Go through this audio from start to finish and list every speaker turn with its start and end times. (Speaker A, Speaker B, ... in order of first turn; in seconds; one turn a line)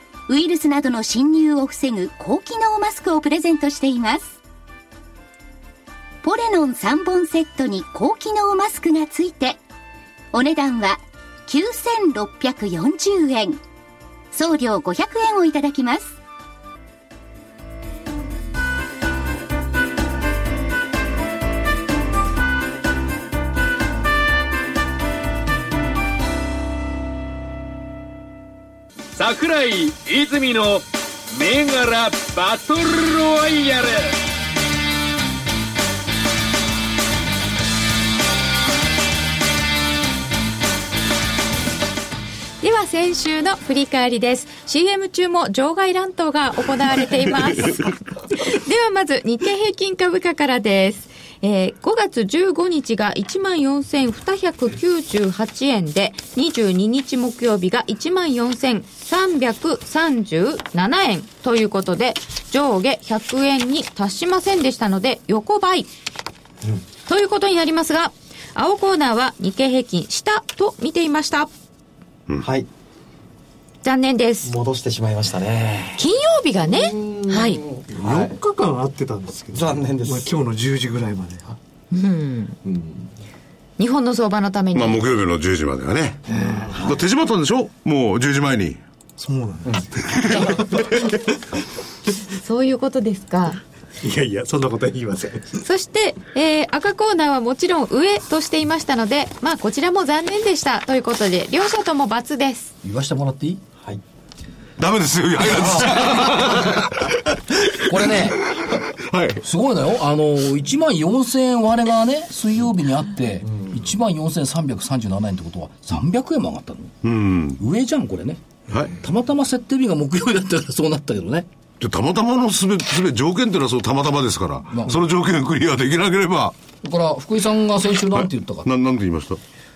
Speaker A: 0.3-4.3
Speaker A: 6.2-9.6
Speaker A: 10.3-13.6
Speaker A: 14.3-16.1
Speaker B: 29.1-34.1
Speaker C: 42.6-65.9
Speaker C: 67.1-71.5
Speaker D: 72.4-72.7
Speaker C: 73.8-74.5
Speaker D: 74.4-76.0
Speaker C: 76.0-77.6
Speaker D: 76.7-78.3
Speaker E: 77.9-81.5
Speaker D: 79.5-80.3
Speaker C: 81.9-82.6
Speaker D: 82.6-83.1
Speaker C: 83.8-85.0
Speaker F: 84.7-86.2
Speaker E: 86.3-86.9
Speaker F: 86.7-88.8
Speaker E: 89.2-90.9
Speaker F: 90.1-90.5
Speaker C: 92.3-93.6
Speaker E: 94.0-95.6
Speaker C: 95.6-102.7
Speaker G: 102.8-103.6
Speaker F: 104.8-109.4
Speaker G: 105.5-106.8
Speaker G: 107.8-108.4
Speaker G: 109.4-117.0
Speaker F: 117.0-117.6
Speaker G: 117.5-121.5
Speaker F: 121.8-126.6
Speaker G: 124.7-125.0
Speaker G: 126.8-128.7
Speaker F: 128.2-129.4